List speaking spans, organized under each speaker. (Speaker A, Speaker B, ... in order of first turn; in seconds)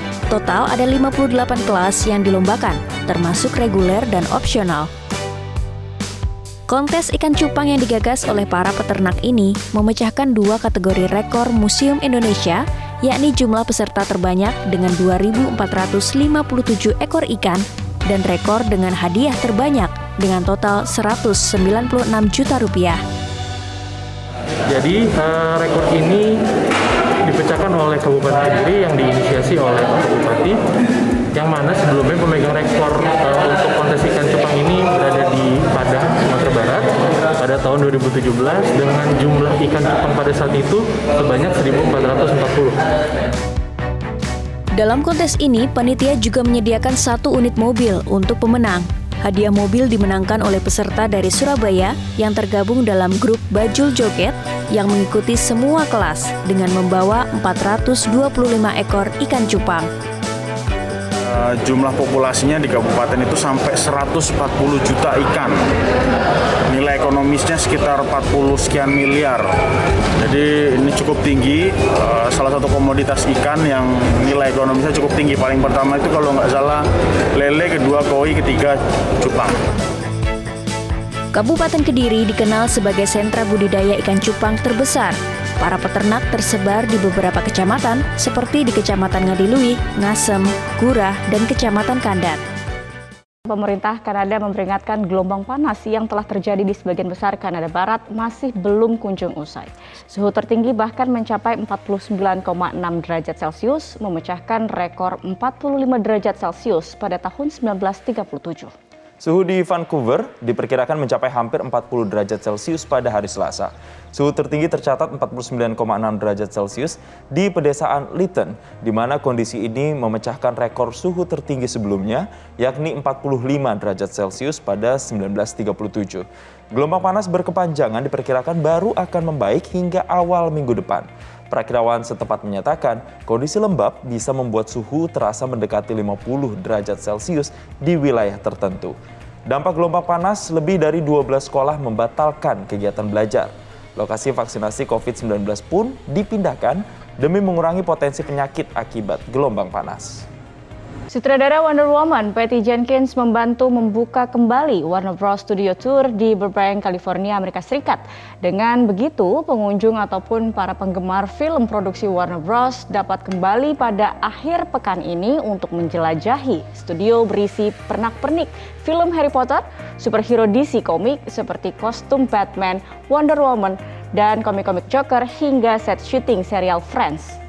Speaker A: 0.3-4.9, 6.7-23.0, 44.7-59.9, 81.3-92.4
Speaker B: 24.7-26.4, 27.2-30.6, 31.3-42.8
Speaker C: 61.2-65.6, 66.7-69.5, 70.2-79.6
Speaker D: 93.5-108.7, 151.1-177.4
Speaker E: 109.2-138.9, 139.5-150.2